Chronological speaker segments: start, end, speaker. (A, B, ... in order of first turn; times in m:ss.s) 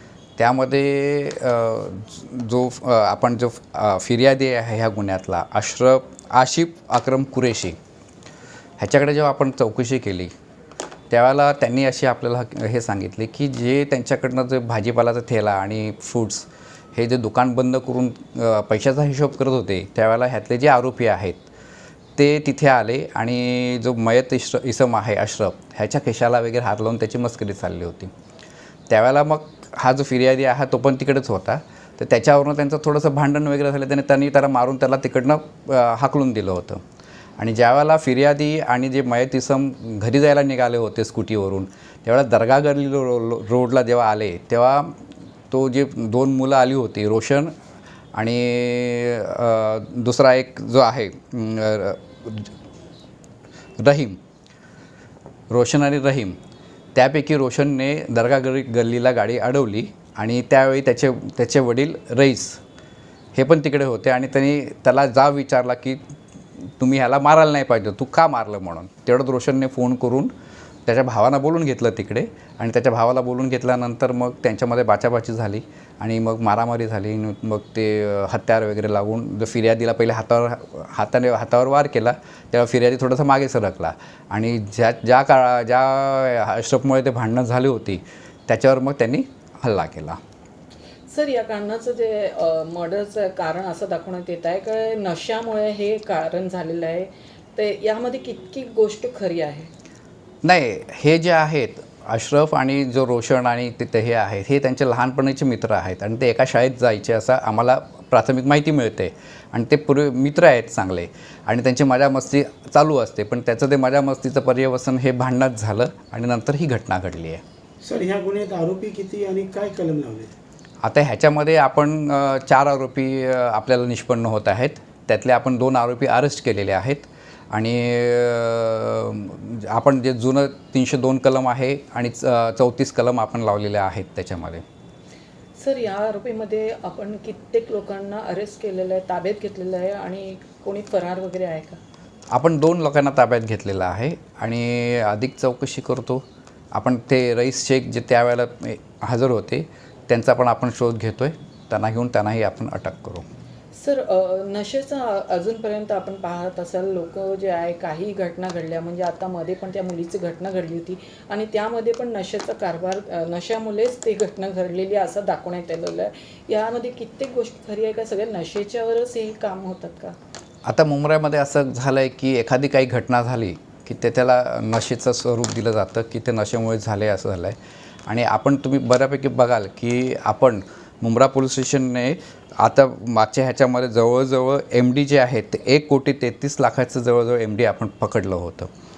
0:00.4-0:07.8 A
0:08.8-0:10.3 A
0:11.1-0:21.4 A
0:22.2-0:28.1 A
0:28.9-0:36.8 A
0:37.4-0:44.9 A
0:45.5-0:47.5 A
0:48.1-0:52.5 A
0:53.8-0:54.2 A
0:55.5-0:56.4 A
0:56.9-1:02.6 A
1:03.3-1:06.0 A
1:06.8-1:10.3 A
1:10.8-1:30.2 A
1:31.1-1:39.7 B
1:40.4-1:57.4 A
1:57.8-2:00.3 C
2:00.8-2:14.6 A
2:15.6-2:21.8 B
2:22.3-2:26.2 A
2:26.7-2:33.2 A
2:33.7-2:50.2 B
2:50.6-3:08.7 A